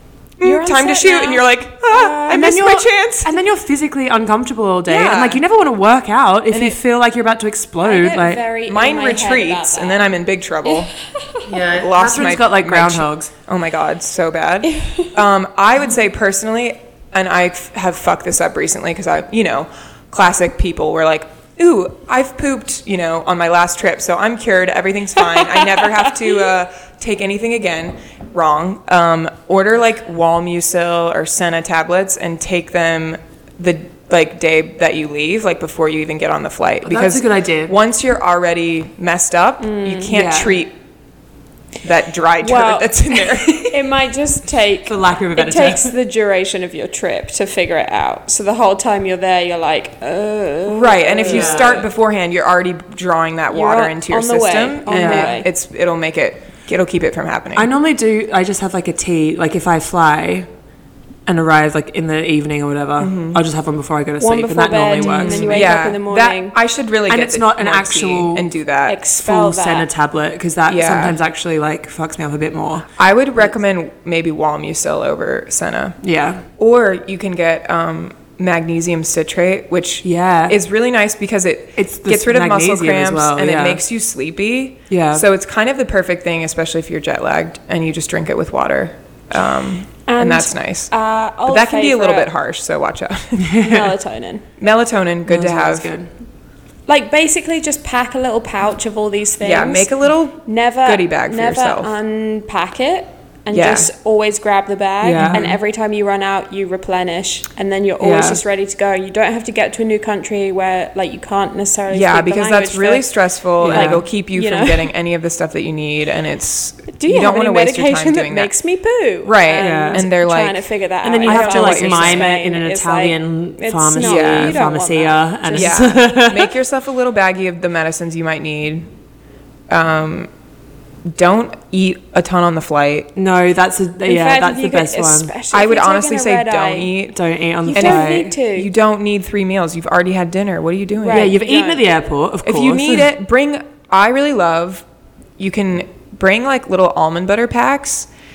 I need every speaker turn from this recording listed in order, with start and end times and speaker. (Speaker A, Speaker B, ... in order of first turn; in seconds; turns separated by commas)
Speaker A: 0.4-3.3, Speaker B: 0.4-2.4, Speaker C: 2.2-8.4, Speaker A: 4.9-5.4, Speaker A: 6.5-6.8, Speaker B: 7.8-11.4, Speaker A: 8.7-10.9, Speaker C: 11.4-13.3, Speaker A: 11.7-40.7, Speaker B: 14.8-15.1, Speaker C: 36.8-37.8, Speaker B: 39.6-40.1, Speaker C: 40.1-40.6, Speaker A: 41.8-43.8, Speaker B: 42.4-51.7, Speaker C: 44.9-45.9, Speaker A: 50.7-57.7, Speaker C: 51.2-51.9, Speaker B: 53.5-55.5, Speaker C: 54.9-55.4, Speaker C: 57.5-60.5, Speaker C: 61.2-65.8, Speaker A: 63.0-63.4, Speaker B: 64.2-66.5, Speaker A: 65.0-69.0, Speaker C: 67.1-68.5, Speaker B: 68.8-69.9, Speaker C: 69.1-72.9, Speaker A: 70.7-71.2, Speaker A: 72.9-76.0, Speaker C: 76.0-76.4, Speaker A: 76.6-90.9, Speaker C: 80.0-80.6, Speaker C: 81.8-83.8, Speaker C: 84.9-85.2, Speaker B: 90.1-92.3, Speaker A: 91.5-93.6, Speaker C: 93.5-93.9, Speaker B: 93.6-94.4, Speaker A: 94.6-95.9, Speaker C: 95.3-96.1, Speaker B: 96.9-99.9, Speaker A: 99.4-101.9, Speaker B: 100.5-114.9, Speaker A: 103.5-103.9, Speaker C: 105.0-105.4, Speaker A: 105.2-105.6, Speaker C: 108.0-108.4, Speaker A: 111.9-118.5, Speaker C: 113.6-114.0, Speaker B: 116.9-125.9, Speaker A: 119.2-120.7, Speaker C: 119.6-120.0, Speaker C: 121.0-126.5, Speaker A: 121.2-122.3, Speaker A: 124.0-124.7, Speaker A: 125.5-128.9, Speaker A: 129.7-130.3, Speaker A: 131.1-133.1, Speaker C: 133.2-135.3, Speaker B: 134.0-136.9, Speaker A: 135.5-137.2, Speaker C: 137.1-138.3, Speaker B: 137.6-138.7, Speaker A: 137.7-141.3, Speaker B: 141.0-141.8, Speaker C: 141.1-143.1, Speaker A: 142.4-144.8, Speaker A: 145.4-148.1